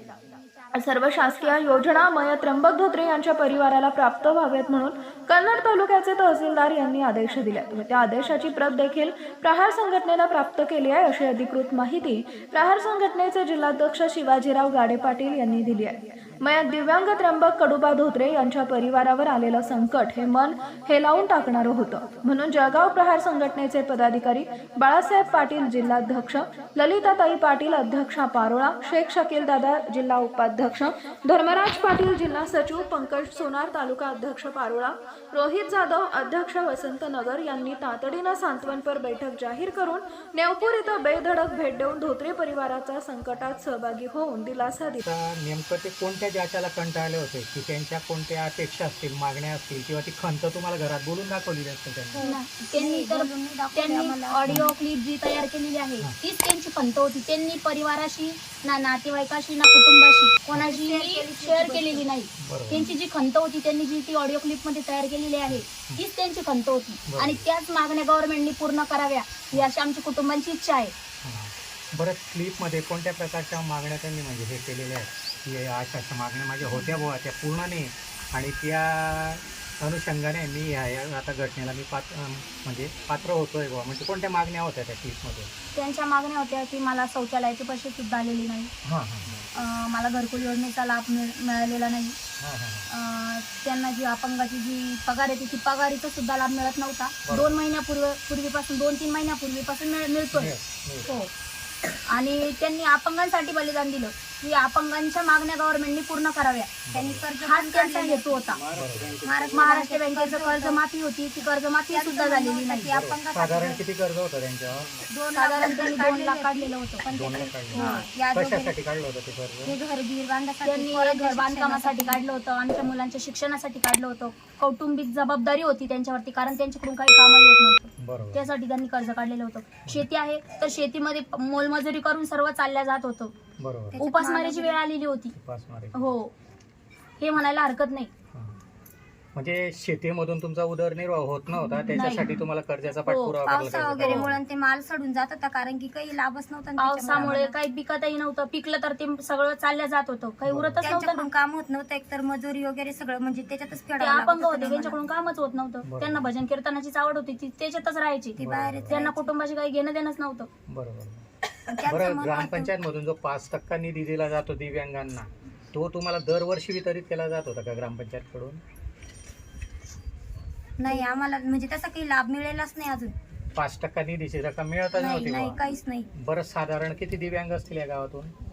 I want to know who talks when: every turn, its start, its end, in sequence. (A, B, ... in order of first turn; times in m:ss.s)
0:00.7-0:45.0 A
0:45.0-0:52.2 B
0:52.1-0:54.7 C
0:52.2-1:10.9 D
1:00.5-1:00.8 B
1:00.8-1:02.1 C
1:02.4-1:02.9 B
1:05.5-1:06.0 B
1:07.1-1:07.4 B
1:11.2-1:25.5 B
1:25.7-1:28.7 D
1:28.8-1:29.3 B
1:29.5-1:32.2 D
1:32.4-1:32.9 B
1:32.9-1:40.5 D
1:37.3-1:37.6 B
1:40.3-1:41.2 B
1:42.1-1:46.7 D
1:46.9-1:47.2 B
1:46.9-1:48.6 C
1:47.4-1:48.6 D
1:48.7-1:49.2 B
1:49.2-1:50.8 C
1:49.5-1:52.9 D
1:51.9-1:53.8 C
1:52.8-1:54.9 B
1:55.1-1:58.8 C
1:55.3-1:57.0 D
1:57.1-1:59.7 B
1:57.8-1:58.0 D
1:59.6-2:02.2 C
2:00.6-2:13.3 D
2:08.0-2:08.5 B
2:13.6-2:14.1 B
2:13.9-2:14.8 C
2:14.0-2:15.3 D
2:15.3-2:16.1 B
2:15.9-2:16.3 D
2:17.2-2:18.1 D
2:19.3-2:24.3 B
2:21.9-2:22.4 D
2:23.0-2:23.4 D
2:23.4-2:27.6 C
2:24.0-2:24.3 D
2:26.8-2:31.2 D
2:30.4-2:30.9 B
2:30.8-2:35.0 C
2:34.0-2:40.5 D
2:35.8-2:36.3 B
2:38.3-2:39.3 C
2:38.4-2:39.0 B
2:40.7-2:41.2 B
2:41.7-2:42.7 C
2:41.8-2:48.6 B
2:50.8-2:53.1 C
2:53.6-2:55.6 B
2:55.0-2:56.1 C
2:56.1-2:58.3 B